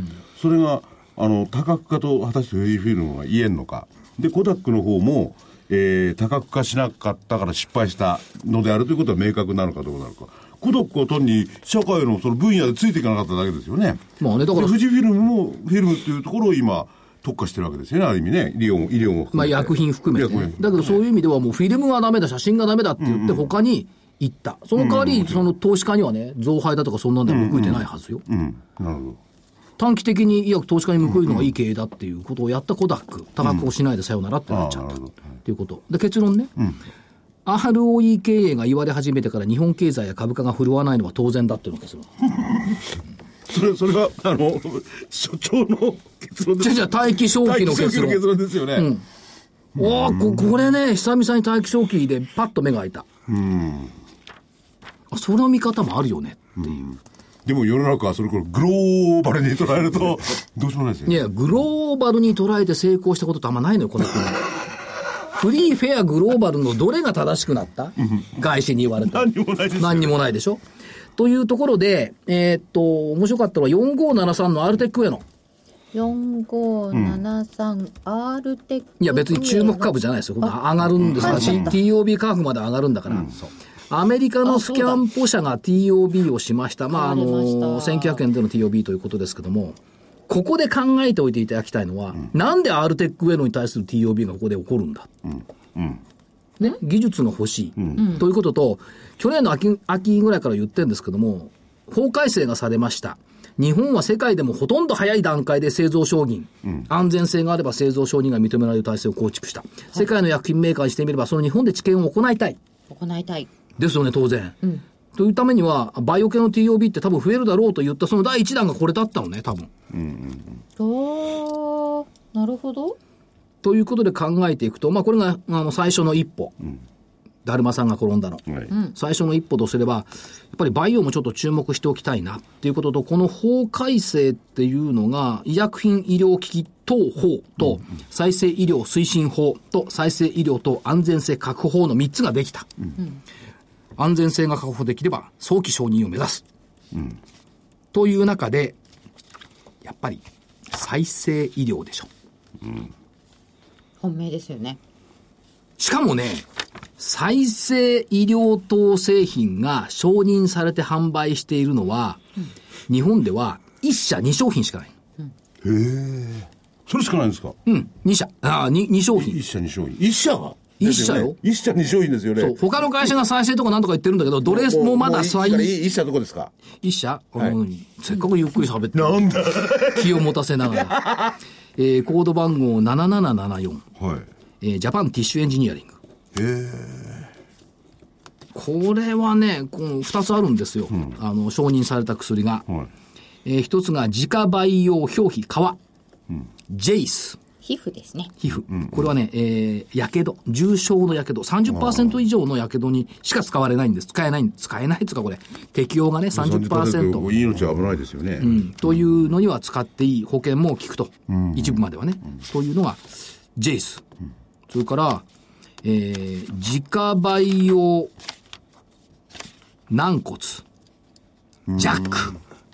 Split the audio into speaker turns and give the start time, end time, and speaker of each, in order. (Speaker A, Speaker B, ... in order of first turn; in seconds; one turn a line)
Speaker A: 0.3-21.0
Speaker B: 14.2-14.8
Speaker B: 19.3-28.2
Speaker A: 23.0-23.5
Speaker A: 24.8-25.5
Speaker A: 27.3-29.2
Speaker B: 29.8-36.5
Speaker A: 31.1-31.4
Speaker A: 34.5-35.1
Speaker B: 37.5-42.1
Speaker A: 43.5-48.9
Speaker B: 46.6-49.0
Speaker A: 49.8-50.6
Speaker B: 49.8-53.0
Speaker A: 53.3-53.9
Speaker B: 55.1-56.5
Speaker A: 56.6-61.2
Speaker B: 61.0-64.5
Speaker B: 65.4-70.6
Speaker A: 69.0-70.2
Speaker B: 71.2-75.2
Speaker C: 75.9-81.8
Speaker A: 76.9-77.2
Speaker B: 79.0-89.8
Speaker A: 81.0-81.7
Speaker C: 84.4-85.0
Speaker C: 86.9-88.2
Speaker B: 90.3-95.2
Speaker B: 96.6-112.6
Speaker C: 98.0-98.2
Speaker C: 112.9-113.5
Speaker B: 113.8-114.6
Speaker B: 115.1-119.7
Speaker A: 119.9-120.6
Speaker C: 120.8-123.0
Speaker B: 123.6-126.5
Speaker B: 127.4-142.7
Speaker B: 144.0-146.4
Speaker B: 147.9-148.8
Speaker B: 149.8-152.1
Speaker C: 154.0-154.8
Speaker B: 155.8-156.4
Speaker B: 157.0-162.2
Speaker B: 162.9-164.9
Speaker A: 165.6-167.6
Speaker B: 167.7-169.4
Speaker A: 169.2-172.6
Speaker B: 170.8-171.4
Speaker B: 172.4-175.8
Speaker A: 174.4-176.5
Speaker B: 176.8-181.0
Speaker A: 178.9-180.2
Speaker A: 180.9-181.3
Speaker B: 181.8-183.8
Speaker A: 184.0-184.3
Speaker B: 184.6-186.0
Speaker A: 186.3-187.3
Speaker B: 188.5-192.7
Speaker B: 193.4-195.8
Speaker B: 196.7-197.4
Speaker C: 197.6-198.3
Speaker B: 198.4-207.3
Speaker A: 198.7-199.0
Speaker A: 206.3-208.7
Speaker B: 208.4-214.0
Speaker A: 211.3-211.8
Speaker B: 214.7-215.2
Speaker B: 215.8-218.1
Speaker B: 219.9-220.6
Speaker A: 221.7-222.0
Speaker B: 221.8-222.3